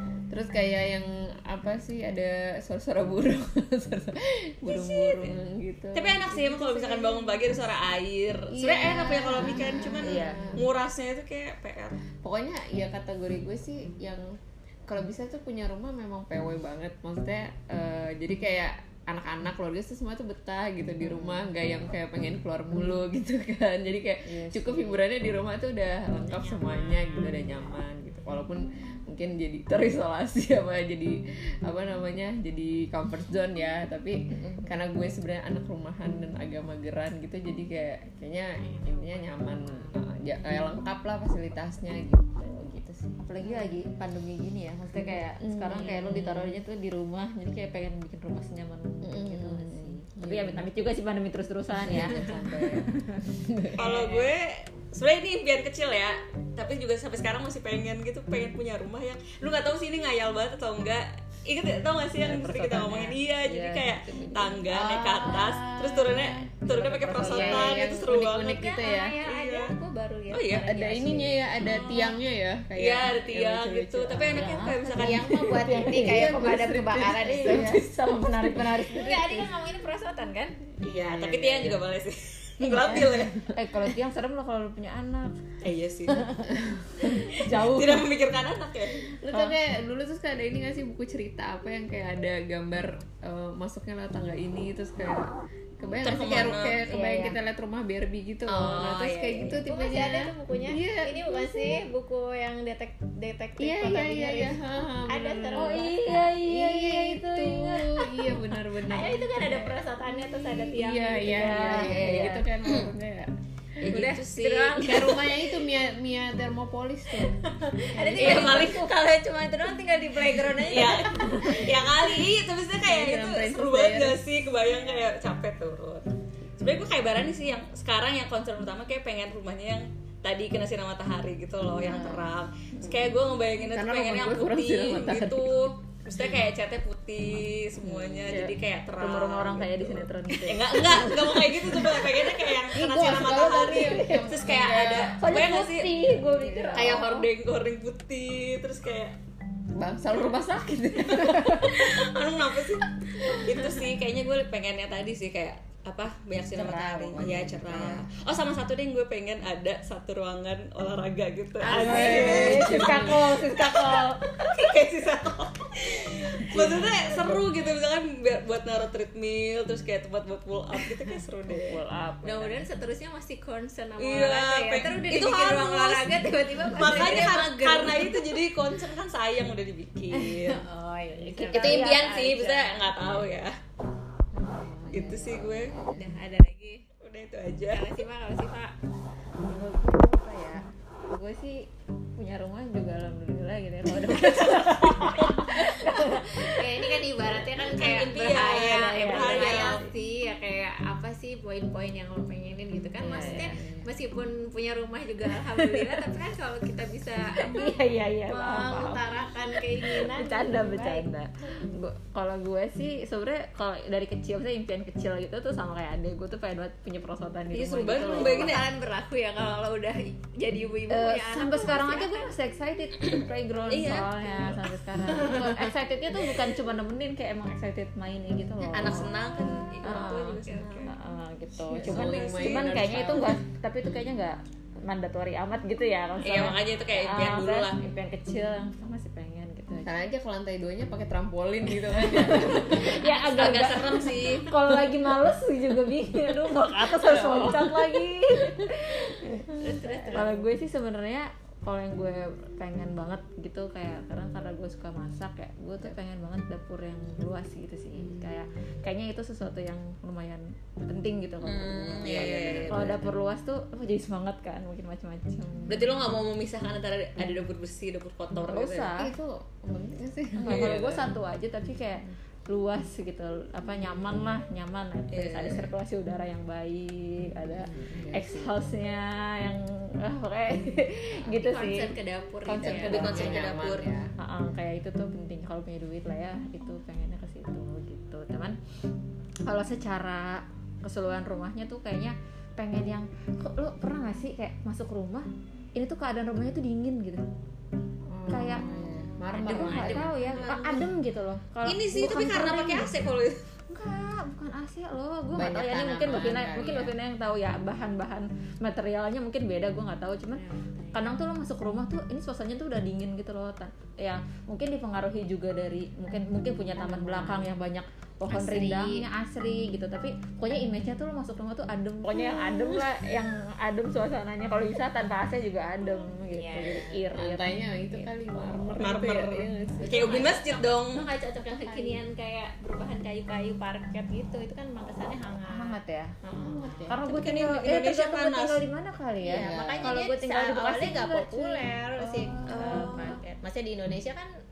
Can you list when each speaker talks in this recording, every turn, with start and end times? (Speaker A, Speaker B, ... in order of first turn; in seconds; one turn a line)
Speaker A: 0.3-7.5
Speaker B: 4.6-5.4
Speaker B: 5.9-12.0
Speaker A: 8.5-10.7
Speaker C: 10.0-10.6
Speaker A: 12.2-43.7
Speaker D: 26.2-27.8
Speaker D: 38.6-39.9
Speaker C: 43.2-53.1
Speaker A: 44.9-46.6
Speaker A: 49.0-50.9
Speaker A: 51.8-53.9
Speaker B: 53.8-68.7
Speaker D: 53.8-54.2
Speaker C: 62.2-63.2
Speaker A: 63.5-64.5
Speaker D: 64.7-72.1
Speaker A: 67.0-69.2
Speaker C: 67.1-67.7
Speaker B: 69.2-69.7
Speaker B: 70.3-70.7
Speaker A: 70.7-78.8
Speaker B: 71.6-72.1
Speaker B: 72.7-75.6
Speaker C: 74.3-79.5
Speaker D: 74.9-77.8
Speaker D: 78.8-80.8
Speaker B: 80.8-83.5
Speaker A: 80.8-81.8
Speaker C: 82.7-85.4
Speaker A: 83.0-83.2
Speaker B: 85.6-86.3
Speaker C: 86.1-88.1
Speaker A: 86.5-86.8
Speaker B: 87.2-89.1
Speaker A: 89.2-101.8
Speaker C: 89.3-89.6
Speaker B: 96.0-96.8
Speaker C: 96.8-97.4
Speaker D: 98.5-106.0
Speaker A: 103.6-113.3
Speaker C: 105.6-108.1
Speaker D: 108.8-112.9
Speaker C: 111.2-112.5
Speaker B: 113.8-115.2
Speaker D: 113.9-115.6
Speaker A: 114.8-117.3
Speaker D: 117.6-121.9
Speaker A: 117.9-118.8
Speaker B: 118.2-118.8
Speaker C: 118.2-118.7
Speaker B: 120.7-126.1
Speaker A: 122.8-124.2
Speaker B: 126.6-146.0
Speaker A: 131.8-132.9
Speaker A: 133.6-135.6
Speaker A: 137.9-138.4
Speaker C: 138.3-142.2
Speaker A: 142.7-145.5
Speaker C: 143.0-144.3
Speaker C: 145.1-147.3
Speaker A: 146.2-146.9
Speaker B: 146.7-149.2
Speaker A: 149.8-152.1
Speaker B: 151.0-171.8
Speaker A: 153.2-153.7
Speaker A: 156.6-158.1
Speaker D: 161.6-162.8
Speaker C: 161.7-164.4
Speaker A: 161.7-163.4
Speaker A: 166.5-167.0
Speaker C: 171.5-172.7
Speaker D: 172.2-178.2
Speaker B: 174.0-180.6
Speaker C: 176.7-177.2
Speaker D: 180.1-182.9
Speaker C: 181.3-182.1
Speaker B: 181.5-183.6
Speaker A: 184.3-186.1
Speaker B: 184.9-185.7
Speaker D: 185.9-186.9
Speaker B: 187.0-187.9
Speaker D: 187.7-188.8
Speaker C: 189.5-190.6
Speaker C: 191.1-191.7
Speaker C: 192.2-196.9
Speaker D: 194.1-194.4
Speaker B: 194.2-195.6
Speaker D: 195.2-207.8
Speaker B: 197.7-199.8
Speaker C: 198.3-199.9
Speaker A: 203.0-203.8
Speaker C: 203.0-203.6
Speaker C: 205.6-205.9
Speaker C: 207.4-209.0
Speaker D: 208.3-211.1
Speaker C: 209.8-218.6
Speaker B: 217.5-218.7
Speaker D: 217.9-222.3
Speaker C: 220.9-240.0
Speaker B: 223.7-224.6
Speaker B: 228.7-230.9
Speaker A: 231.6-233.4
Speaker B: 231.8-233.1
Speaker B: 236.2-237.8
Speaker A: 239.8-243.1
Speaker C: 241.9-265.9
Speaker B: 242.7-244.5
Speaker A: 246.8-249.4
Speaker D: 249.6-250.5
Speaker A: 257.9-258.4
Speaker B: 261.4-263.1
Speaker A: 261.9-263.1
Speaker B: 265.7-268.9
Speaker C: 268.5-269.1
Speaker A: 269.0-271.1
Speaker C: 270.4-283.4
Speaker B: 270.4-270.9
Speaker B: 275.1-275.7
Speaker A: 277.5-278.8
Speaker D: 281.3-283.5
Speaker A: 282.6-284.1
Speaker B: 282.8-283.9
Speaker C: 284.2-288.6
Speaker C: 289.4-297.2
Speaker A: 298.1-300.2
Speaker C: 298.3-298.7
Speaker C: 299.3-302.9
Speaker B: 299.5-300.9
Speaker B: 301.6-303.4
Speaker C: 303.7-310.4
Speaker A: 305.3-307.0
Speaker D: 310.3-311.1
Speaker C: 310.9-328.9
Speaker D: 316.8-317.5
Speaker D: 318.3-319.1
Speaker D: 326.3-327.0
Speaker A: 327.1-330.4
Speaker B: 328.8-331.0
Speaker D: 329.8-336.9
Speaker C: 331.6-332.0
Speaker C: 335.5-336.1
Speaker A: 336.4-337.0
Speaker C: 336.9-343.2
Speaker B: 337.0-338.6
Speaker D: 339.2-344.3
Speaker A: 339.3-340.0
Speaker B: 342.5-343.2